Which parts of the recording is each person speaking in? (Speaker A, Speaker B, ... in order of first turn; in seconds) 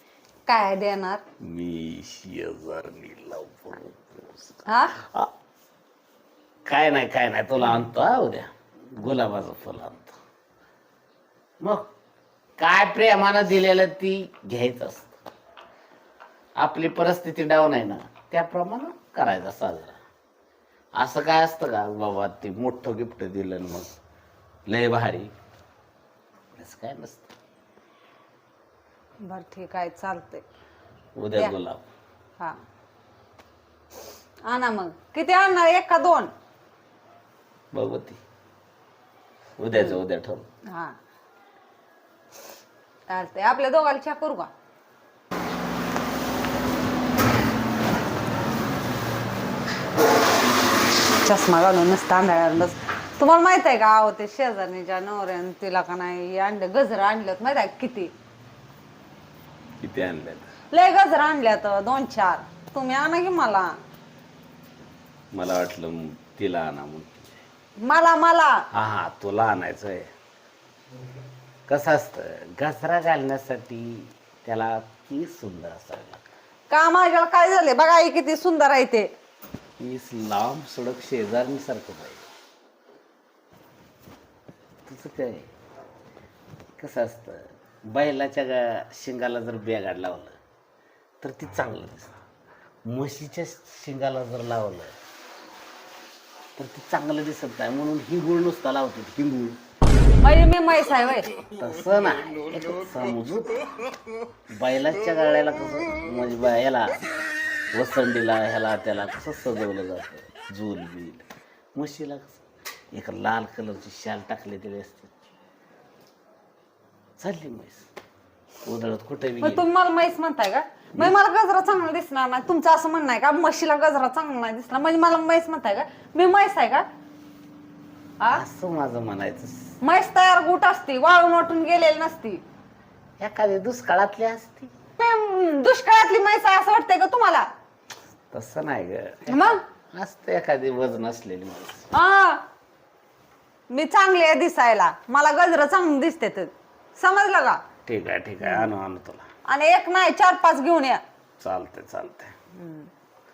Speaker A: 0.5-1.2, 4.7-5.0, 29.2-30.4, 34.5-36.3, 39.7-40.0, 40.7-41.0, 43.1-44.5, 51.2-58.1, 60.7-63.8, 67.8-68.6, 76.7-79.1, 100.2-101.3, 119.4-126.8, 129.8-132.4, 135.0-137.4, 139.3-139.6, 141.9-142.4, 143.7-147.6, 148.4-148.7, 149.5-151.0, 152.5-152.9
Speaker B: 1.4-5.3, 6.7-10.2, 11.6-11.9, 12.6-15.2, 16.6-20.0, 21.0-23.9, 24.7-25.3, 26.6-27.3, 31.1-31.8, 37.7-38.2, 39.6-40.5, 59.8-60.5, 65.3-67.4, 68.7-70.1, 71.7-76.2, 79.8-82.2, 84.8-85.5, 86.8-90.4, 91.2-92.1, 92.9-94.9, 96.5-99.6, 101.5-103.7, 104.5-107.0, 107.7-112.4, 112.9-115.1, 117.2-117.9, 118.6-119.6, 128.3-129.6, 133.2-134.7, 138.3-139.4, 139.9-141.9, 147.8-149.2, 151.4-152.3